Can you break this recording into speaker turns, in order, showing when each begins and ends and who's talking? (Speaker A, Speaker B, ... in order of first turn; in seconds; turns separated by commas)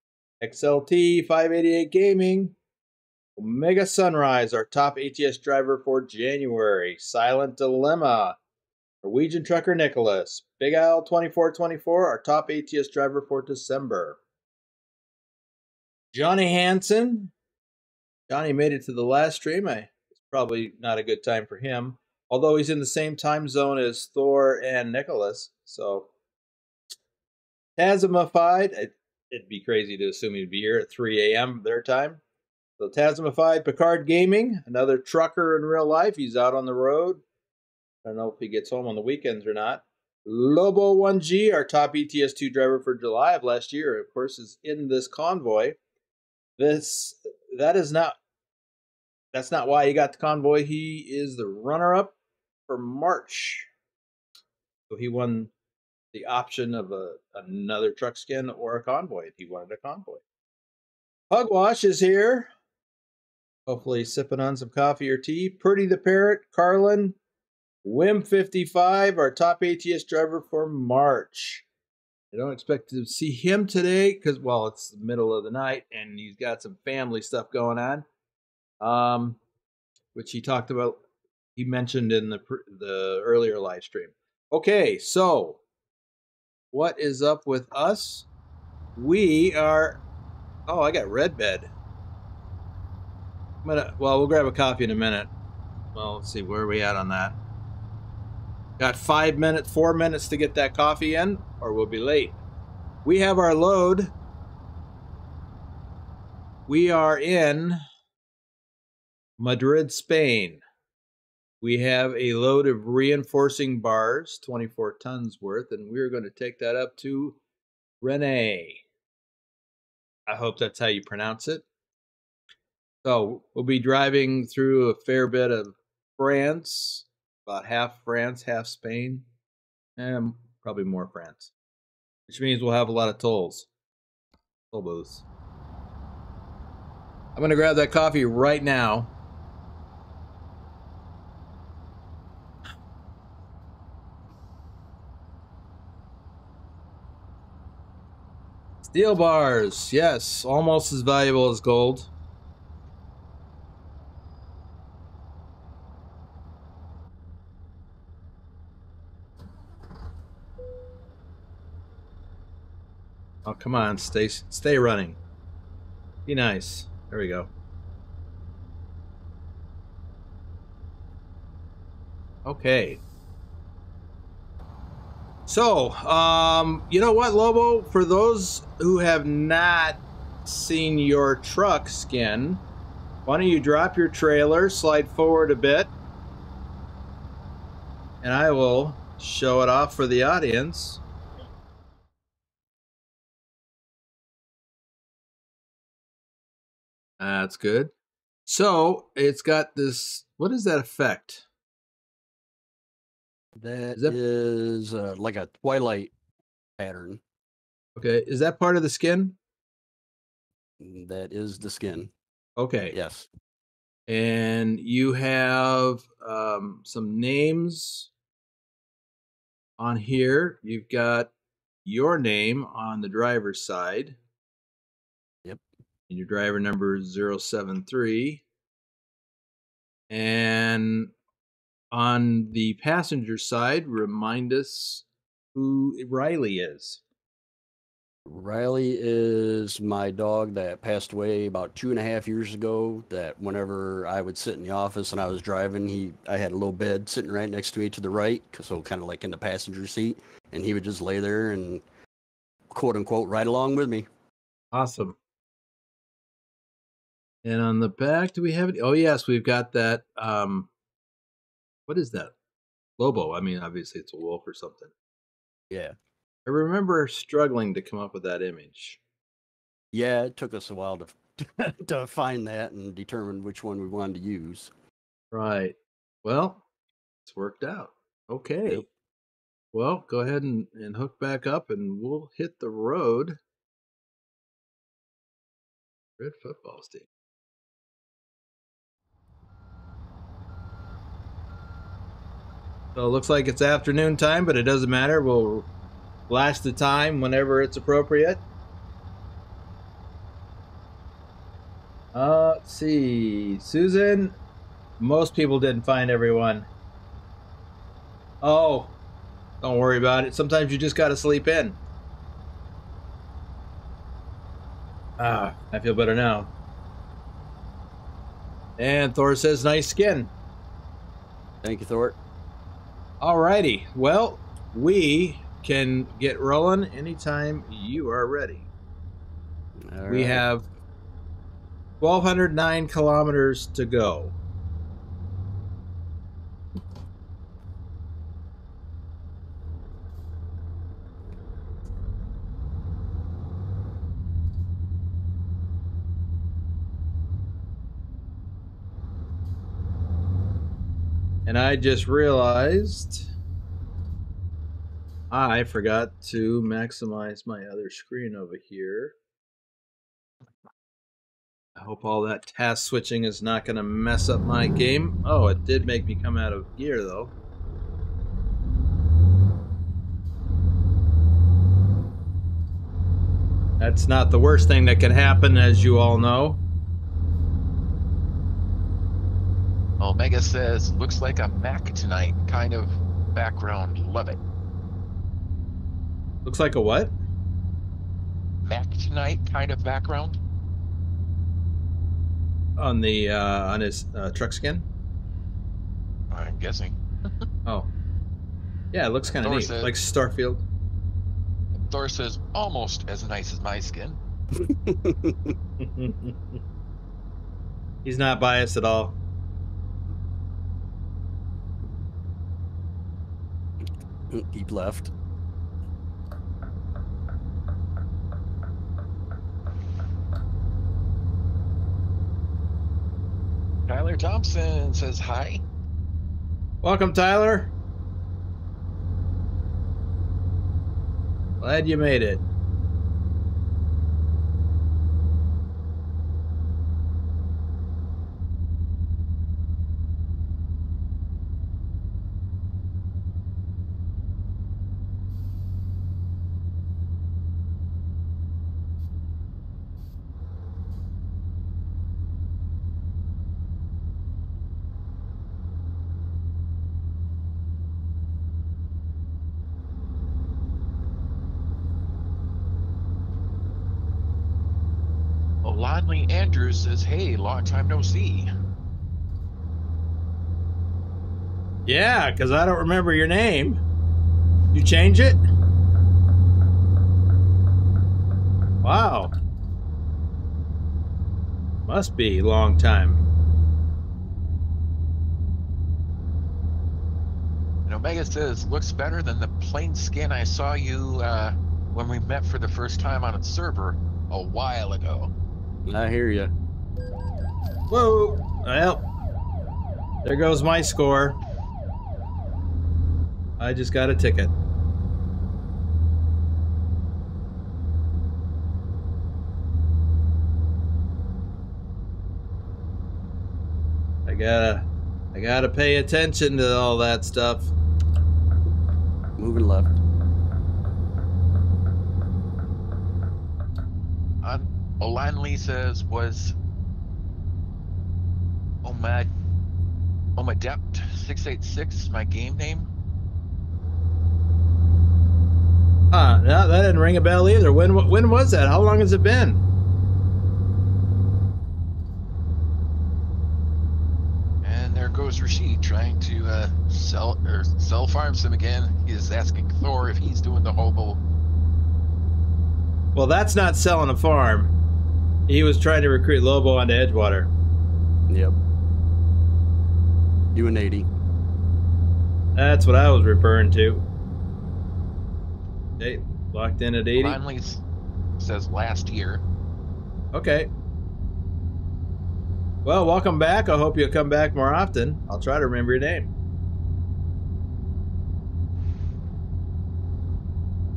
Speaker A: 0.4-2.6, Speaker A: 3.4-8.4, Speaker A: 9.0-14.2, Speaker A: 16.1-17.3, Speaker A: 18.3-26.1, Speaker A: 27.8-32.2, Speaker A: 32.8-37.2, Speaker A: 38.0-45.8, Speaker A: 46.6-48.2, Speaker A: 49.3-52.1, Speaker A: 52.7-53.7, Speaker A: 54.9-55.5, Speaker A: 56.1-60.2, Speaker A: 61.3-62.5, Speaker A: 63.7-67.2, Speaker A: 67.8-71.7, Speaker A: 72.3-78.0, Speaker A: 78.8-79.4, Speaker A: 80.2-81.0, Speaker A: 81.6-85.6, Speaker A: 86.7-88.3, Speaker A: 89.0-90.0, Speaker A: 90.7-91.7, Speaker A: 93.6-95.3, Speaker A: 96.0-97.4, Speaker A: 98.8-102.4, Speaker A: 103.0-104.1, Speaker A: 106.7-107.8, Speaker A: 109.4-110.6, Speaker A: 111.6-117.4, Speaker A: 118.0-118.8, Speaker A: 120.3-121.6, Speaker A: 123.0-129.2, Speaker A: 130.0-131.5, Speaker A: 132.3-133.7, Speaker A: 134.7-135.2, Speaker A: 137.4-139.1, Speaker A: 148.9-152.1, Speaker A: 163.4-165.2, Speaker A: 166.3-167.5, Speaker A: 172.4-173.0, Speaker A: 175.5-182.6, Speaker A: 183.3-185.9, Speaker A: 188.2-191.0, Speaker A: 197.2-197.9, Speaker A: 198.5-201.4, Speaker B: 203.6-206.1, Speaker B: 206.8-207.2, Speaker A: 208.0-209.4, Speaker B: 210.8-212.1, Speaker A: 212.6-212.9, Speaker B: 212.9-213.3, Speaker A: 214.1-218.1, Speaker A: 219.8-221.3, Speaker A: 221.8-224.2, Speaker A: 226.1-228.4, Speaker A: 230.1-231.1, Speaker A: 231.9-237.0, Speaker B: 238.3-251.8, Speaker B: 252.7-254.1, Speaker A: 254.7-255.2, Speaker A: 257.4-260.7, Speaker A: 261.9-262.3, Speaker A: 263.0-264.9, Speaker B: 265.7-266.0, Speaker A: 266.5-269.0, Speaker B: 269.9-274.7, Speaker A: 275.3-276.6, Speaker A: 277.3-278.9, Speaker A: 279.7-283.4, Speaker A: 286.2-287.1, Speaker A: 292.9-295.7, Speaker A: 296.3-298.4, Speaker A: 302.1-304.4, Speaker A: 305.0-306.7, Speaker A: 308.4-308.9, Speaker A: 309.6-311.8, Speaker A: 315.2-316.5, Speaker A: 318.8-320.3, Speaker B: 321.6-322.2, Speaker A: 323.2-328.7, Speaker B: 329.9-330.4, Speaker A: 330.1-330.6, Speaker A: 332.0-334.4, Speaker A: 351.5-353.3, Speaker A: 355.3-359.2, Speaker A: 361.8-367.3, Speaker A: 373.8-376.6, Speaker C: 380.0-384.4, Speaker A: 386.4-387.1, Speaker C: 388.7-390.4, Speaker A: 392.8-394.9, Speaker C: 396.3-396.9, Speaker A: 398.9-400.6, Speaker C: 399.4-399.9, Speaker C: 401.7-404.2, Speaker B: 404.5-405.6, Speaker A: 405.8-406.4, Speaker A: 408.1-409.2, Speaker B: 414.3-415.1, Speaker C: 423.9-425.6, Speaker A: 426.8-427.7, Speaker A: 431.6-432.4, Speaker C: 465.6-468.5, Speaker A: 471.9-473.8, Speaker A: 474.7-475.4, Speaker A: 478.8-479.3, Speaker A: 481.9-483.2, Speaker C: 487.9-495.3, Speaker B: 495.9-496.5, Speaker A: 497.9-499.0, Speaker A: 500.2-501.4, Speaker A: 503.6-504.5, Speaker A: 514.3-517.7, Speaker B: 519.4-520.0, Speaker C: 524.4-526.6, Speaker C: 528.8-529.3, Speaker C: 530.4-532.9, Speaker A: 536.1-539.6, Speaker C: 544.6-551.2, Speaker A: 553.1-554.7, Speaker A: 555.5-557.5, Speaker B: 558.3-558.6, Speaker B: 560.5-561.1, Speaker A: 562.6-564.0, Speaker A: 566.0-567.4, Speaker C: 567.1-567.8, Speaker C: 568.4-569.4, Speaker A: 570.3-570.7, Speaker A: 572.9-576.3